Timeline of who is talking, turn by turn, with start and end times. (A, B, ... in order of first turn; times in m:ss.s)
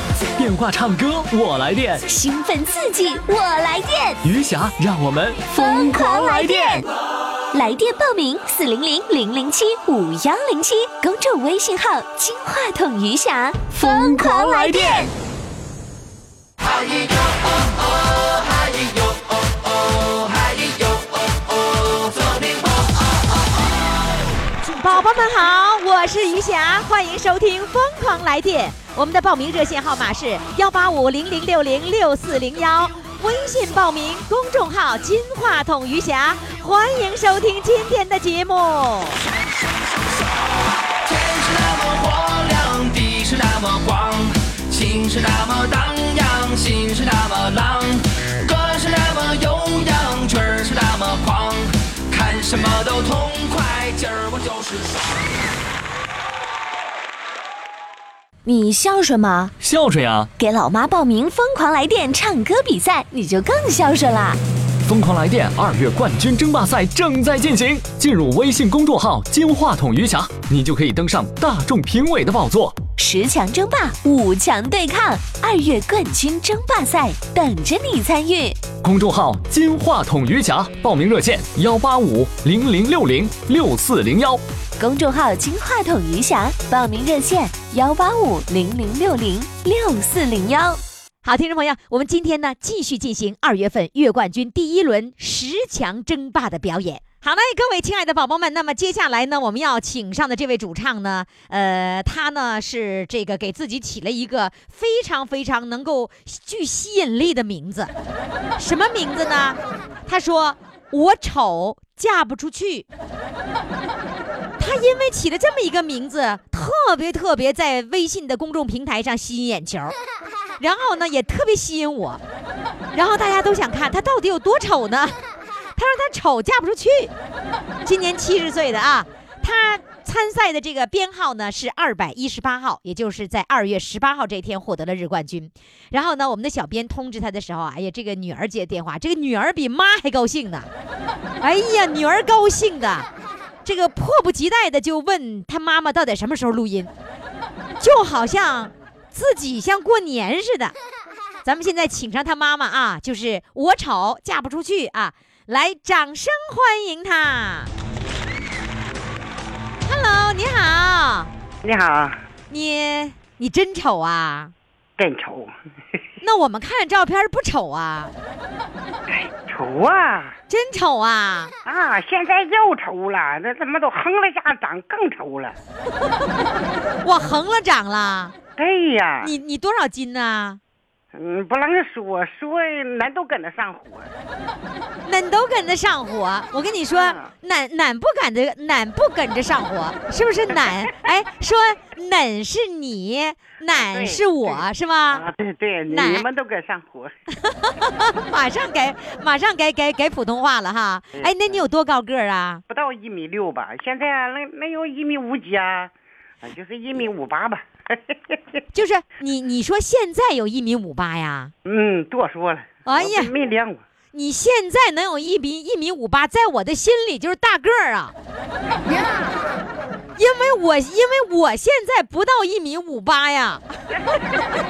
0:00.3-0:02.0 A
0:02.1-0:04.2 B
0:04.2-0:06.8 A
0:05.5-0:06.9 B
0:07.5-0:15.1 B
0:13.8-0:15.0 A
0:16.6-0:23.1 C
0:24.6-0:39.2 D
0:41.0-0:55.1 C
0:58.4-0:59.5 B
0:59.6-1:00.3 A
1:00.4-1:04.4 B
1:04.8-1:12.8 A
1:13.0-1:18.6 B
1:18.8-1:24.4 A
1:24.8-1:30.8 B
1:31.2-1:47.9 D
1:48.6-1:52.8 D
1:54.6-1:59.9 D
2:00.6-2:02.2 D
2:02.9-2:05.2 D
2:05.8-2:07.1 D
2:07.8-2:20.7 D
2:21.4-2:23.1 D
2:23.6-2:26.9 D
2:27.8-2:30.7 D
2:31.4-2:37.7 D
2:39.8-2:41.3 D
2:41.6-2:42.2 E
2:42.5-2:44.5 D
2:45.0-2:45.5 E
2:46.2-2:48.1 D
2:49.1-2:50.3 E
2:50.5-2:51.5 D
2:51.6-2:55.5 E
2:56.0-2:56.3 D
2:57.0-2:58.3 D
2:58.6-2:59.3 E
2:59.2-3:00.6 D
3:01.1-3:04.1 E
3:05.0-3:15.2 D
3:06.9-3:07.2 E
3:13.7-3:14.6 E
3:15.1-3:17.1 E
3:15.9-3:16.2 D
3:17.4-3:22.6 D
3:21.1-3:21.6 E
3:22.7-3:25.9 E
3:26.4-3:27.6 E
3:28.7-3:31.5 D
3:31.6-3:33.8 E
3:32.8-3:33.3 D
3:34.1-3:38.1 D
3:38.7-3:39.6 E
3:40.2-3:43.6 D